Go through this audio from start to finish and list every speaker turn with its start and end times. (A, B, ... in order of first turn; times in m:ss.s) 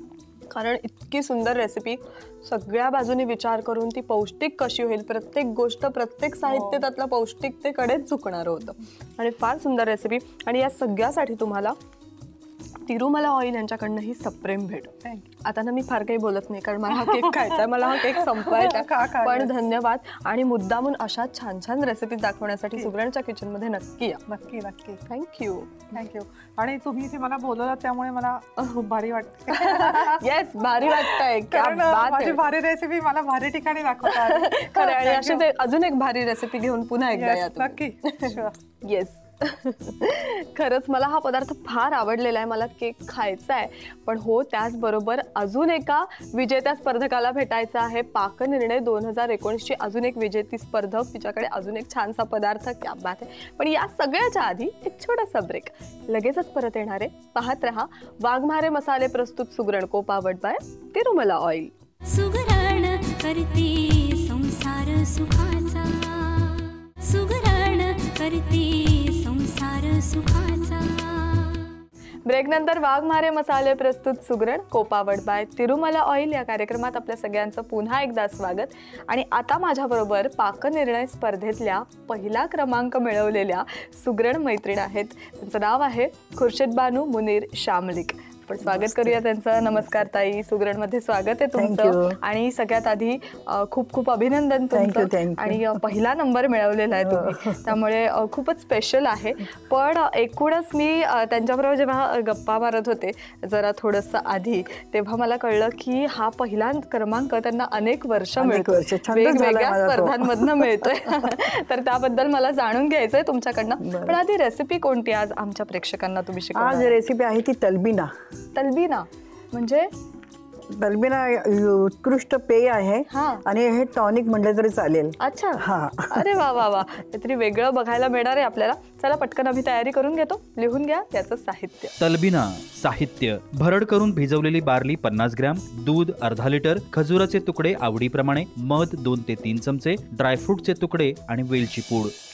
0:00.5-0:11.8 A
0:06.5-0:06.8 B
0:12.9-0:24.2 A
0:17.0-0:19.6 B
0:24.3-0:25.0 B
0:25.1-0:25.9 A
0:25.9-0:30.2 B
0:29.5-0:32.4 A
0:30.8-0:35.4 B
0:34.0-1:01.7 A
0:37.1-0:38.6 B
1:02.0-1:11.7 C
1:12.3-1:57.0 A
1:28.6-1:29.2 D
1:31.6-1:32.2 D
1:34.7-1:35.8 D
1:37.0-1:37.7 D
1:48.4-1:51.5 D
1:53.8-1:54.2 D
1:56.6-1:58.1 D
1:58.6-1:59.9 A
2:00.7-2:06.3 D
2:03.1-2:03.4 A
2:05.2-2:12.0 A
2:12.0-2:22.1 E